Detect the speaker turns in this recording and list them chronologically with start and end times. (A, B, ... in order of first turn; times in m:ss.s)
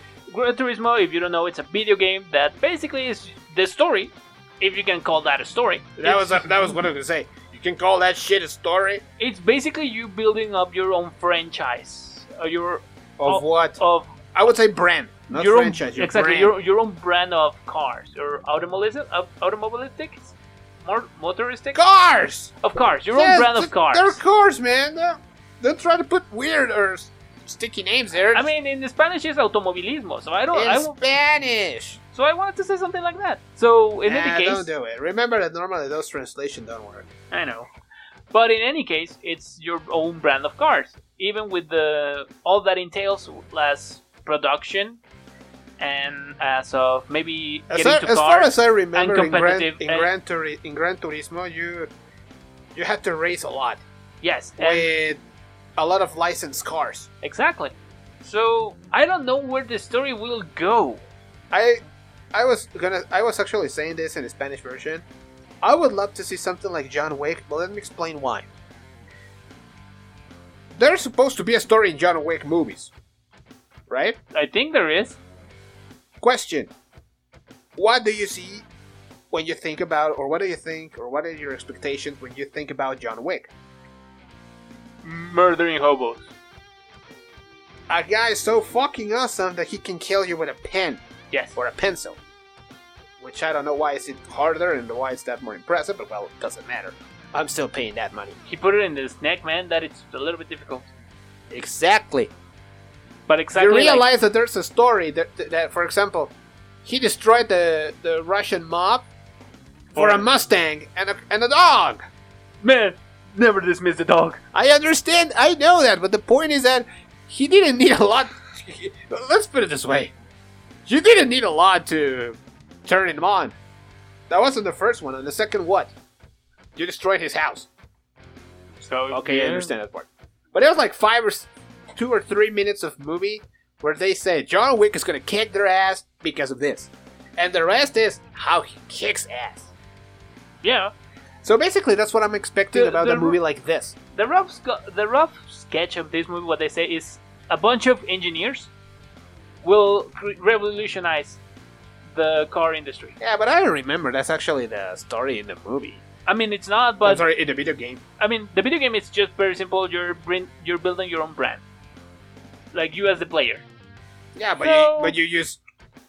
0:00.3-0:06.8 A
0:06.0-0:09.0 B
0:09.2-0:14.2 A
0:13.2-0:13.8 B
0:14.4-0:16.5 B
0:15.3-0:21.8 A
0:21.8-0:22.5 B
0:22.6-0:24.2 A
0:23.2-0:28.5 B
0:28.3-0:30.9 A
0:30.5-0:32.0 B
0:32.1-0:34.7 A
0:34.1-0:37.1 B
0:37.3-0:37.7 A
0:38.3-0:45.0 A
0:45.8-0:50.1 A
0:47.7-0:51.9 B
0:52.8-0:53.8 B
0:54.2-0:54.9 A
0:54.6-0:55.2 B
0:55.8-0:57.1 B
0:57.2-1:01.0 A
1:01.5-1:01.8 B
1:02.3-1:05.0 B
1:05.6-1:08.5 B
1:10.8-1:12.9 B
1:13.9-1:14.2 B
1:14.3-1:15.2 A
1:16.2-1:16.7 B
1:17.8-1:18.6 B
1:19.3-1:23.5 B
1:25.0-1:26.3 A
1:27.9-1:31.0 B
1:31.6-1:32.2 B
1:33.2-1:38.4 B
1:38.5-1:40.9 A
1:41.5-1:42.3 B
1:43.3-1:44.1 A
1:43.6-1:46.3 B
1:46.8-1:49.1 B
1:49.9-1:50.3 A
1:49.9-1:52.0 B
1:52.6-1:54.4 A
1:54.5-2:00.1 B
2:00.9-2:03.6 B
2:04.3-2:05.9 B
2:06.8-2:07.7 B
2:08.8-2:09.7 A
2:09.1-2:19.7 B
2:20.6-2:20.9 A
2:21.4-2:24.0 B
2:22.7-2:23.4 A
2:24.1-2:28.7 A
2:29.6-2:31.4 A
2:32.1-2:33.2 A
2:33.2-2:36.0 B
2:36.3-2:37.2 A
2:37.0-2:38.0 B
2:38.2-2:41.6 A
2:42.7-2:43.6 A
2:44.4-2:45.6 B
2:44.6-2:45.2 A